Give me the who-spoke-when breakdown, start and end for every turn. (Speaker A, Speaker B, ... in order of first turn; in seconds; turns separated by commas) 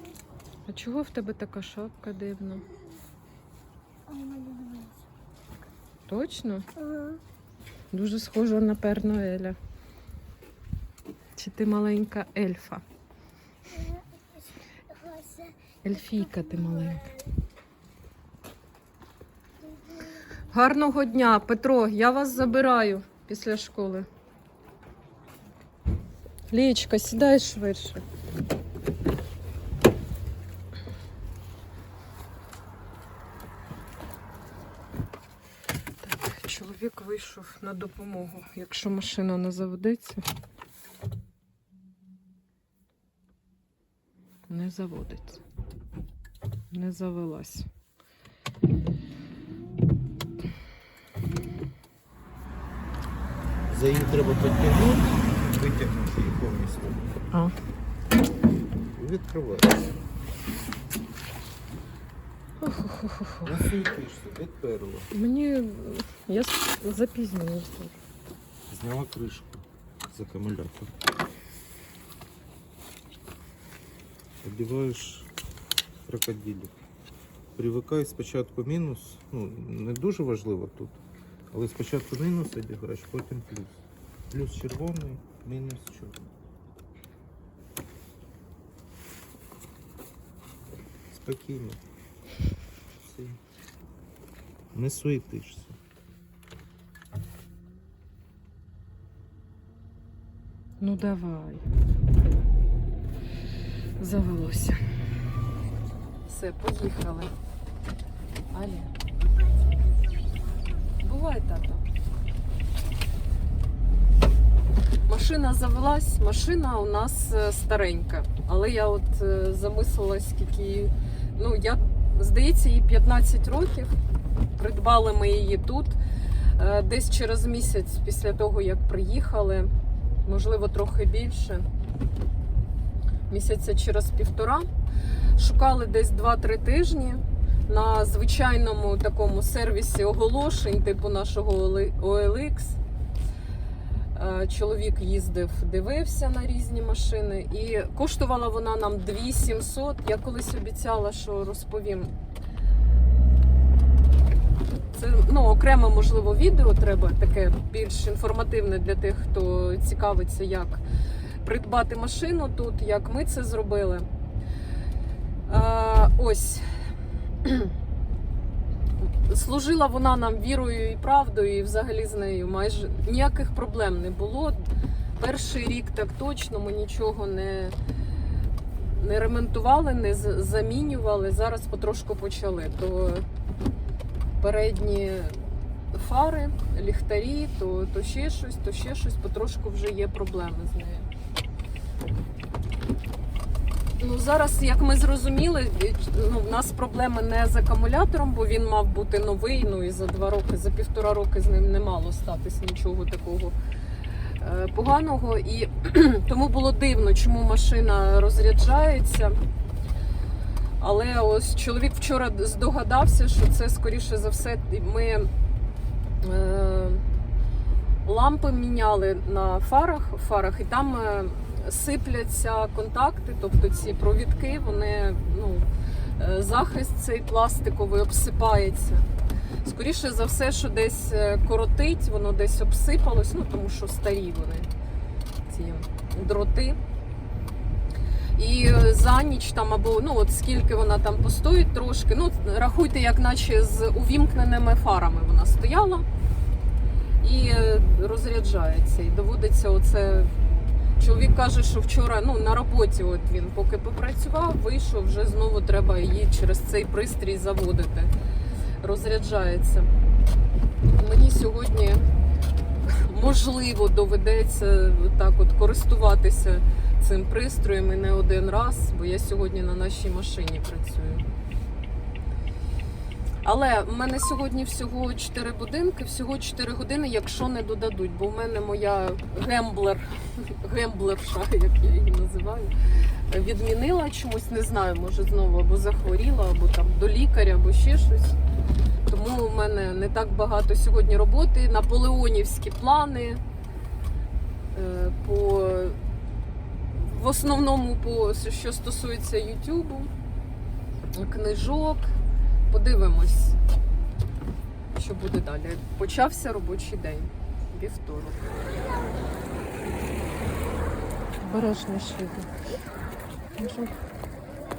Speaker A: 0.7-2.6, Speaker B: 4.1-5.0, Speaker A: 6.1-6.7, Speaker B: 6.8-7.2, Speaker A: 7.9-9.6, Speaker A: 11.4-12.8, Speaker B: 13.7-14.0, Speaker B: 14.9-15.6, Speaker A: 15.8-17.1, Speaker B: 16.1-17.2, Speaker A: 20.5-24.1, Speaker A: 26.5-28.0, Speaker A: 36.0-40.2, Speaker A: 44.5-45.4, Speaker A: 46.7-47.7, Speaker C: 53.7-57.1, Speaker C: 58.9-59.9, Speaker A: 62.6-63.5, Speaker C: 63.4-65.1, Speaker A: 65.1-68.0, Speaker C: 68.7-71.0, Speaker C: 74.4-75.3, Speaker C: 76.0-76.7, Speaker C: 77.5-81.0, Speaker C: 81.5-83.8, Speaker C: 84.3-86.3, Speaker C: 91.1-91.8, Speaker C: 93.0-93.4, Speaker C: 94.7-95.8, Speaker A: 100.8-101.6, Speaker A: 104.0-104.8, Speaker A: 106.3-107.3, Speaker A: 108.5-108.9, Speaker B: 109.2-110.8, Speaker A: 111.0-111.8, Speaker A: 115.1-123.9, Speaker A: 124.6-126.0, Speaker A: 126.6-129.7, Speaker A: 130.2-131.7, Speaker A: 133.3-134.7, Speaker A: 135.4-142.8, Speaker A: 144.2-152.1, Speaker A: 154.9-160.8, Speaker A: 161.4-164.1, Speaker A: 165.5-166.6, Speaker A: 167.4-167.7, Speaker A: 169.0-177.8, Speaker A: 178.8-183.3, Speaker A: 184.4-191.1, Speaker A: 194.0-203.6, Speaker A: 204.4-209.4, Speaker A: 210.8-215.3, Speaker A: 216.2-217.1, Speaker A: 218.1-225.7, Speaker A: 226.2-229.1, Speaker A: 229.6-234.7, Speaker A: 235.5-236.8, Speaker A: 238.4-246.1, Speaker A: 247.2-250.3, Speaker A: 251.0-258.1, Speaker A: 258.8-259.9, Speaker A: 260.9-262.0, Speaker A: 262.9-271.2, Speaker A: 273.4-282.7, Speaker A: 283.3-288.4, Speaker A: 289.1-293.4, Speaker A: 294.7-296.0, Speaker A: 296.9-300.1, Speaker A: 301.1-302.1, Speaker A: 302.7-303.6, Speaker A: 304.9-308.4, Speaker B: 308.7-309.3, Speaker A: 311.4-312.5, Speaker A: 313.6-313.9